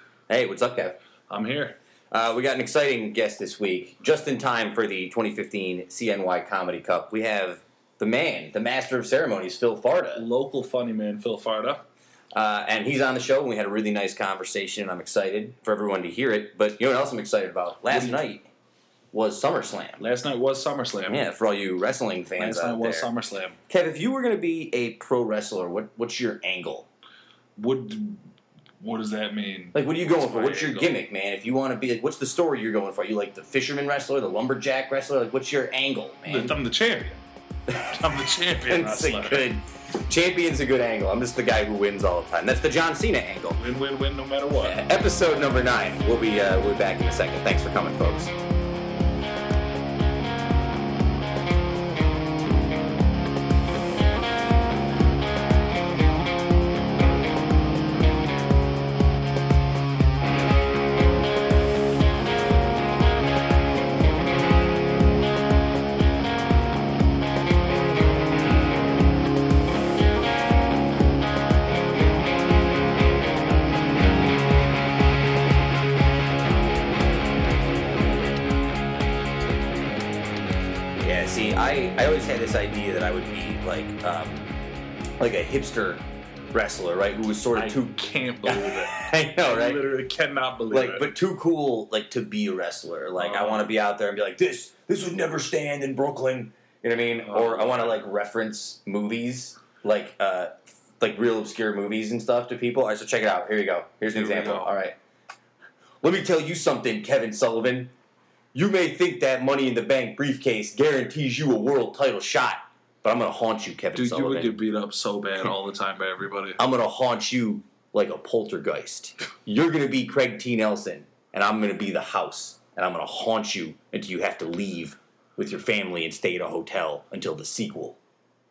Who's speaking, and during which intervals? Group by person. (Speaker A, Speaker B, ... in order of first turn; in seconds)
Speaker A: 0.3-1.0, 2.1-10.2, 12.3-18.5, 19.1-20.0, 21.1-23.1, 23.7-26.9, 29.7-36.6, 37.7-38.0, 38.6-43.6, 44.6-48.3, 81.0-84.5, 85.2-87.9, 88.4-89.8, 90.7-105.0, 106.0-107.9, 108.5-114.5, 116.6-128.0
Speaker B: 1.3-1.8, 10.1-11.8, 17.9-18.2, 20.0-21.3, 22.4-23.6, 27.6-28.3, 28.8-30.9, 36.2-37.2, 37.9-39.5, 43.5-44.8, 87.5-91.1, 93.2-93.7, 97.2-98.0, 104.1-104.7, 113.9-116.6